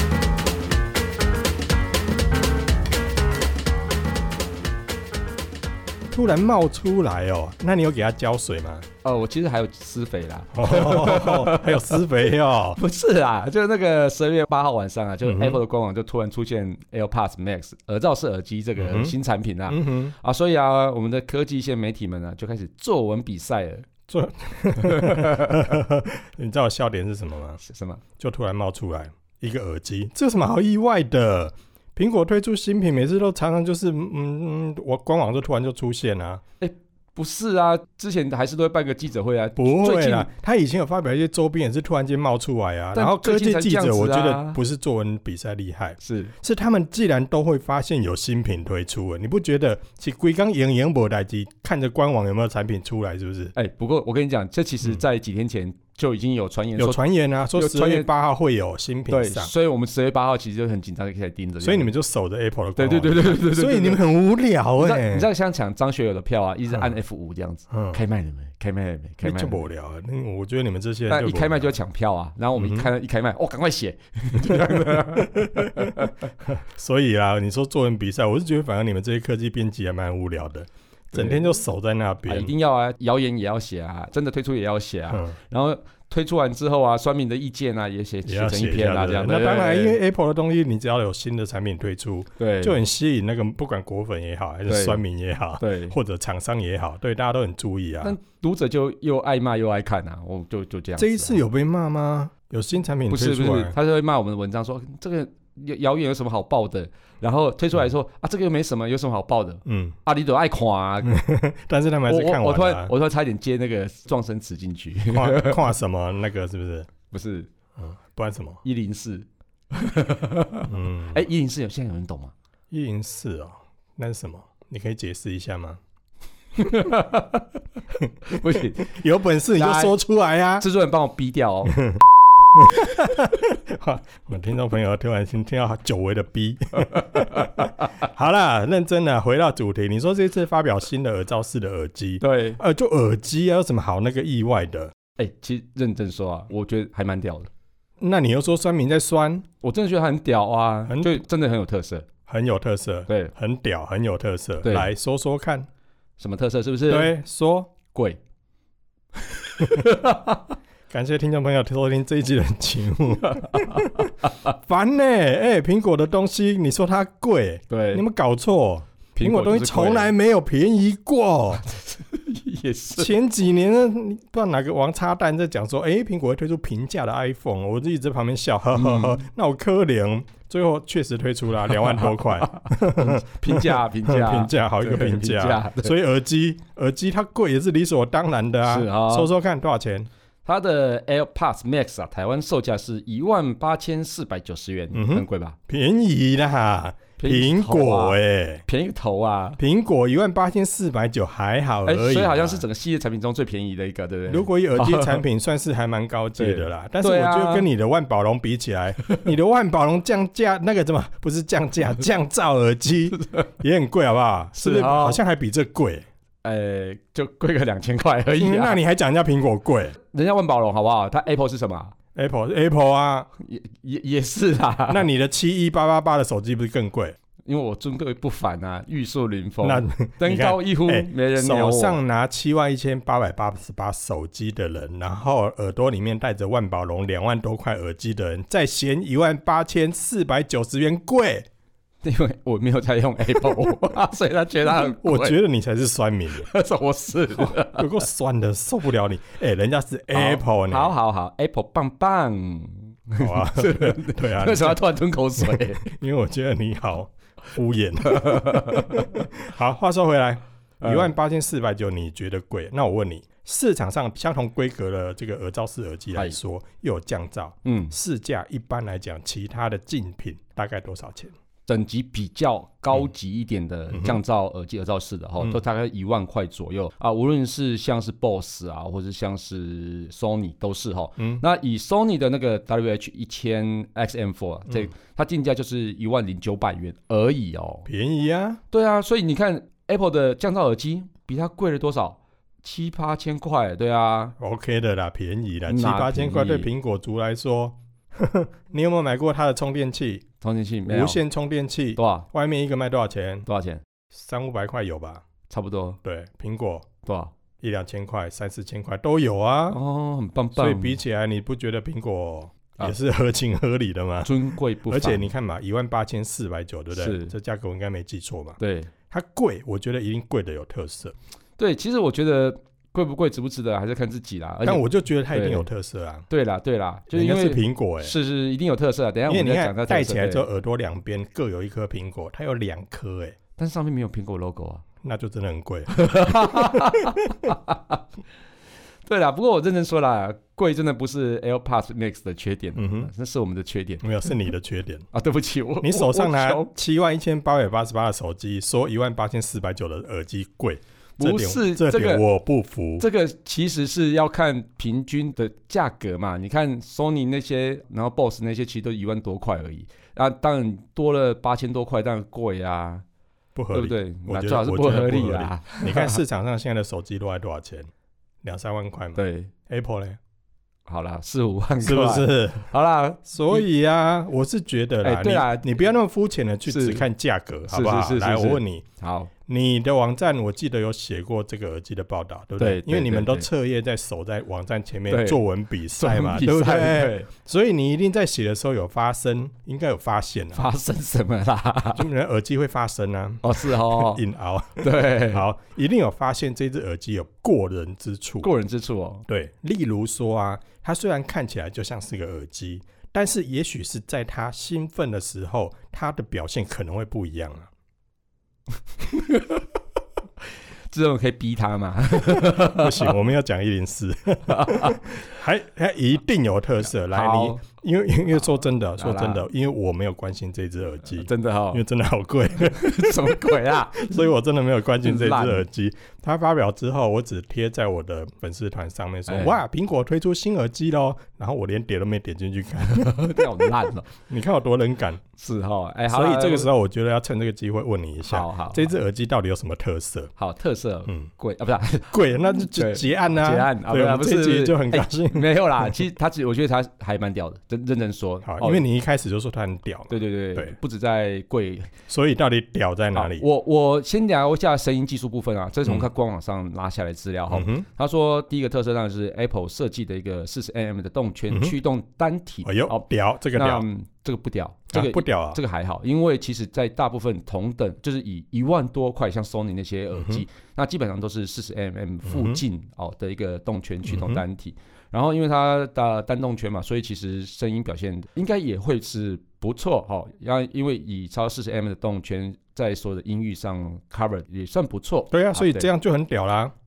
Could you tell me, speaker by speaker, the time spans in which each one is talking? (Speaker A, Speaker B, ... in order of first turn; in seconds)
Speaker A: 6.1-8.8, 10.5-12.8, 15.2-15.6, 18.8-19.1, 19.7-20.1, 24.1-27.6, 28.2-36.4, 39.5-53.5, 56.8-59.5, 61.6-65.3, 67.7-68.0, 69.2-71.8, 72.6-72.9, 74.4-82.5, 88.2-98.2, 101.0-103.7, 109.6-110.0, 111.0-112.9, 115.1-116.9, 117.8-118.6, 120.7-121.2, 122.7-125.8, 128.5-130.7, 131.7-132.0, 132.5-144.9, 148.0-149.4, 150.9-151.2, 152.3-155.7, 156.9-157.7, 160.9-171.6, 173.0-190.1, 194.9-198.6, 199.6-202.6, 204.3-216.1, 218.4-219.9, 222.1-223.3, 224.9-227.2, 229.6-241.4, 244.8-246.5, 247.3-250.9, 253.2-271.3, 273.9-274.2, 281.2-281.4, 287.9-288.6, 294.4-300.2, 300.9-303.4, 304.1-305.2, 306.0-306.9, 307.6-309.8, 310.6-318.6, 319.1-321.1, 324.6-326.3, 327.1-328.1, 329.3-333.4, 335.0-337.1, 342.8-343.1, 344.0-345.1, 345.8-353.0, 363.5-367.9, 368.4-370.2, 371.8-372.7, 373.2-378.8, 379.5-390.7, 391.9-398.5, 399.3-407.7, 412.3-435.2, 436.1-440.3, 442.1-446.0, 448.4-450.7, 452.1-453.4, 457.5-457.9, 461.5-461.8, 462.6-463.9, 464.9-465.6, 470.1-470.4, 472.2-472.6, 474.0-474.4, 485.3-486.7
Speaker B: 9.0-23.9, 24.8-25.7, 27.6-28.0, 36.6-40.3, 42.9-44.6, 46.0-46.3, 53.5-57.0, 57.5-58.1, 59.1-61.9, 62.8-64.0, 64.8-69.6, 71.1-76.2, 81.1-81.5, 82.3-90.0, 92.4-92.8, 94.7-95.0, 95.6-96.0, 98.0-101.4, 103.1-111.2, 112.1-115.6, 117.1-117.5, 118.6-122.3, 126.5-127.6, 128.2-129.0, 129.5-129.9, 130.6-131.8, 136.8-137.9, 142.2-142.6, 145.2-147.5, 149.6-152.1, 153.1-153.3, 154.6-154.9, 156.2-157.1, 157.9-158.2, 159.3-160.5, 163.2-164.3, 167.7-168.0, 169.1-170.1, 171.6-173.1, 178.7-179.2, 181.8-185.9, 188.7-189.3, 190.4-195.6, 197.2-199.6, 201.8-205.2, 206.4-207.7, 213.2-213.4, 214.6-215.2, 216.4-218.8, 220.1-221.9, 223.4-225.1, 227.4-232.0, 242.0-245.4, 246.4-247.9, 250.1-255.9, 258.1-259.2, 260.8-261.1, 267.6-267.9, 271.7-287.9, 288.7-294.3, 295.7-296.7, 300.4-301.2, 301.9-302.3, 303.4-303.8, 305.5-306.0, 307.0-307.3, 309.7-311.0, 314.2-315.3, 316.9-317.3, 318.6-318.9, 321.6-325.7, 326.3-330.4, 333.6-334.8, 335.9-338.0, 339.1-344.3, 345.1-346.7, 351.2-352.2, 353.0-363.0, 363.7-366.2, 369.1-369.5, 370.9-373.6, 375.0-375.8, 376.7-377.0, 377.7-379.3, 382.6-383.5, 385.1-385.4, 386.0-387.3, 390.5-392.1, 393.4-394.2, 394.8-395.4, 398.4-399.2, 409.1-409.6, 410.9-413.1, 414.5-415.2, 417.1-417.6, 419.0-419.4, 421.2-421.8, 422.6-424.3, 425.0-425.6, 429.3-429.6, 432.8-434.1, 435.4-436.7, 438.2-438.9, 440.4-448.8, 450.1-451.9, 453.1-485.9